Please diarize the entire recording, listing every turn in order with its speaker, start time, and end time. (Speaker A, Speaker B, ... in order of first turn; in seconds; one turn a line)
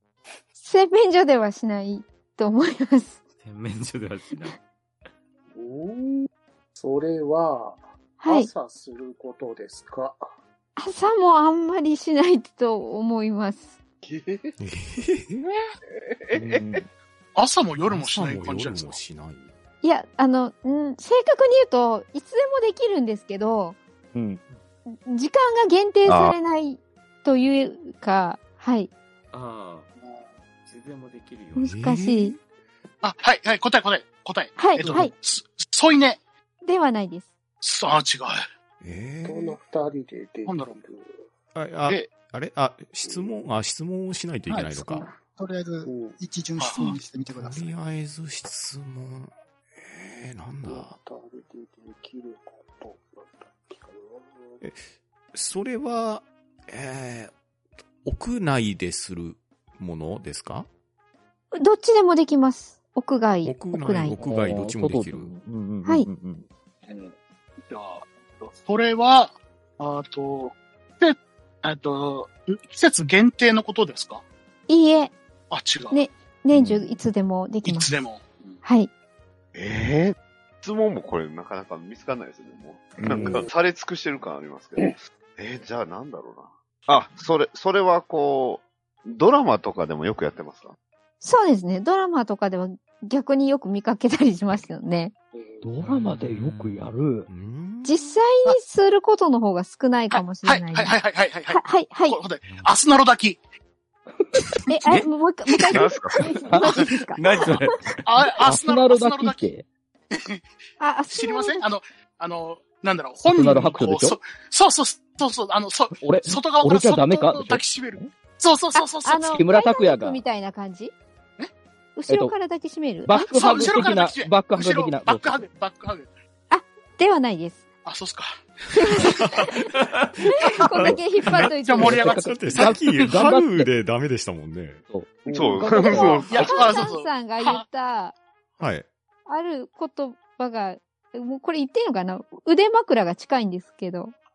Speaker A: 0.6-3.2
Speaker B: 3.4-4.6
Speaker C: 5.5-10.2
Speaker A: 8.2-8.5
Speaker A: 10.8-13.7
Speaker D: 14.6-15.5
Speaker E: 15.8-16.8
Speaker F: 16.3-16.9
Speaker G: 17.4-19.0
Speaker D: 17.9-19.5
Speaker A: 19.8-23.8
Speaker F: 24.1-24.4
Speaker A: 24.9-28.9
Speaker E: 26.1-26.4
Speaker B: 29.3-29.9
Speaker G: 30.0-30.3
Speaker B: 30.7-31.7
Speaker A: 31.6-32.4
Speaker D: 31.6-32.4
Speaker G: 33.0-36.2
Speaker A: 34.6-35.1
Speaker A: 36.6-37.3
Speaker G: 37.6-38.4
Speaker D: 38.8-39.6
Speaker C: 39.2-41.2
Speaker G: 40.5-40.8
Speaker D: 41.5-45.0
Speaker C: 43.0-43.4
Speaker H: 44.5-47.7
Speaker C: 45.9-46.2
Speaker G: 46.6-46.9
Speaker D: 47.3-51.0
Speaker C: 50.6-54.6
Speaker D: 55.3-57.3
Speaker D: 58.0-60.7
Speaker A: 61.5-64.2
Speaker D: 63.4-65.3
Speaker F: 64.2-66.5
Speaker G: 66.8-74.2
Speaker A: 74.7-75.2
Speaker G: 75.5-76.0
Speaker A: 75.9-77.9
Speaker G: 77.6-78.6
Speaker A: 78.6-78.9
Speaker E: 79.5-90.8
Speaker F: 83.0-83.4
Speaker C: 83.2-83.5
Speaker A: 91.2-95.1
Speaker F: 95.6-97.3
Speaker B: 95.8-96.8
Speaker D: 97.3-98.0
Speaker A: 97.8-101.0
Speaker G: 100.1-103.4
Speaker A: 101.5-102.2
Speaker A: 104.7-107.8
Speaker E: 105.7-106.3
Speaker B: 107.2-107.9
Speaker G: 108.0-109.5
Speaker F: 108.4-109.7
Speaker G: 110.1-110.4
Speaker A: 110.8-111.6
Speaker G: 111.1-119.5
Speaker F: 113.2-114.2
Speaker F: 116.0-118.1
Speaker A: 118.8-120.9
Speaker F: 119.3-120.2
Speaker A: 122.0-123.8
Speaker F: 122.1-122.3
Speaker F: 123.1-125.5
Speaker G: 123.2-126.1
Speaker A: 126.5-127.7
Speaker G: 127.8-129.0
Speaker A: 128.7-129.7
Speaker A: 130.3-132.1
Speaker D: 130.6-131.4
Speaker G: 131.3-133.2
Speaker F: 131.8-133.7
Speaker D: 132.1-134.8
Speaker F: 134.9-136.2
Speaker C: 135.3-136.0
Speaker E: 135.3-136.6
Speaker A: 135.8-138.2
Speaker G: 136.2-137.6
Speaker D: 138.6-138.9
Speaker A: 139.3-144.1